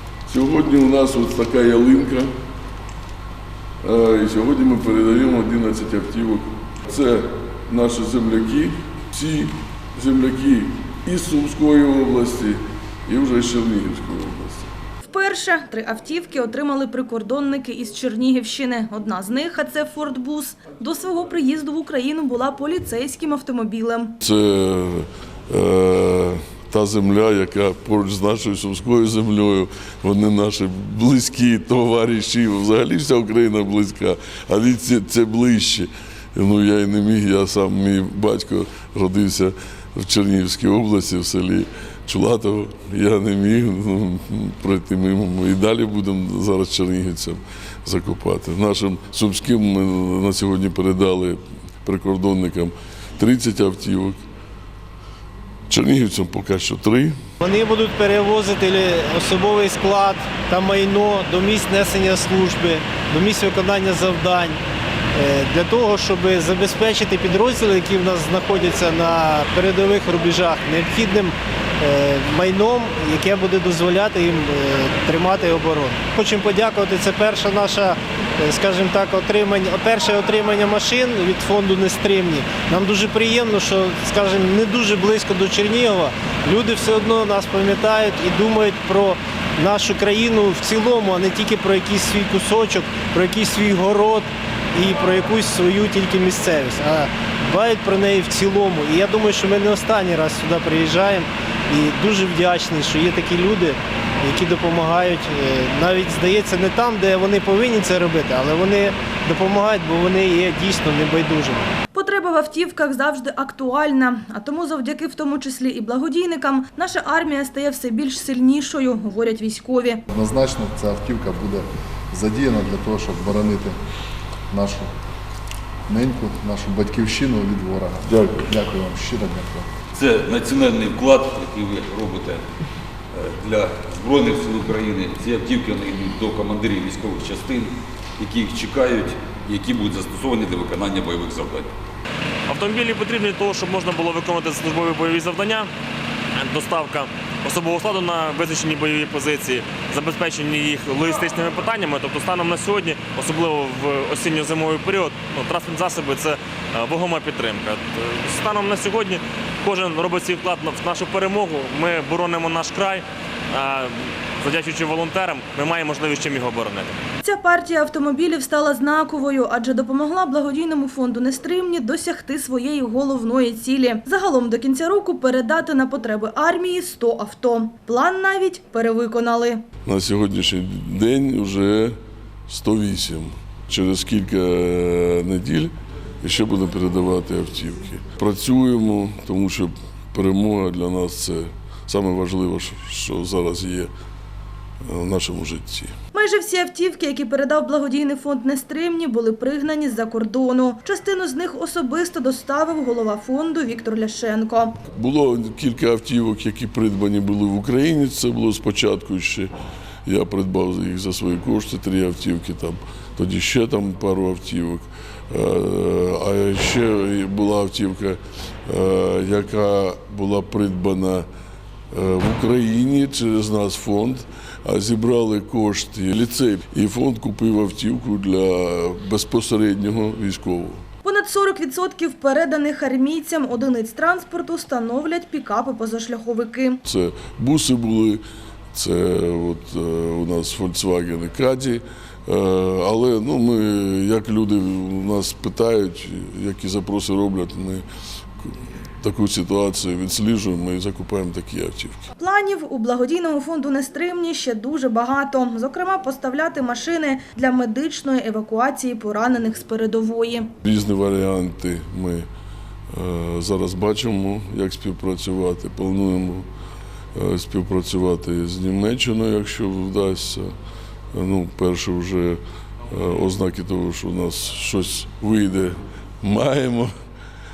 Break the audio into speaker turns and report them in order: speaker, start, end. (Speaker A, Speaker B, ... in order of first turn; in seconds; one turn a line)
Speaker A: 0.3-2.3
Speaker A: 3.8-14.7
Speaker B: 15.0-24.1
Speaker A: 24.2-54.2
Speaker A: 55.7-57.2
Speaker C: 57.4-64.6
Speaker C: 65.1-111.7
Speaker B: 111.9-120.0
Speaker D: 120.1-123.7
Speaker D: 124.5-124.9
Speaker D: 125.9-129.7
Speaker A: 128.1-128.4
Speaker E: 129.9-132.4
Speaker E: 133.1-141.7
Speaker F: 142.5-145.7
Speaker F: 146.3-166.9
Speaker B: 167.2-179.6
Speaker A: 179.8-182.0
Speaker A: 182.5-193.9
Speaker A: 194.8-195.9
Speaker B: 196.1-204.8
Speaker A: 204.9-209.5
Speaker A: 210.1-221.3
Speaker A: 221.9-230.8
Speaker B: 231.0-236.8
Speaker A: 236.8-247.8
Speaker A: 248.4-252.0
Speaker B: 252.2-260.5
Speaker A: 260.6-262.3
Speaker A: 262.9-266.5
Speaker A: 267.1-270.5
Speaker A: 271.1-276.9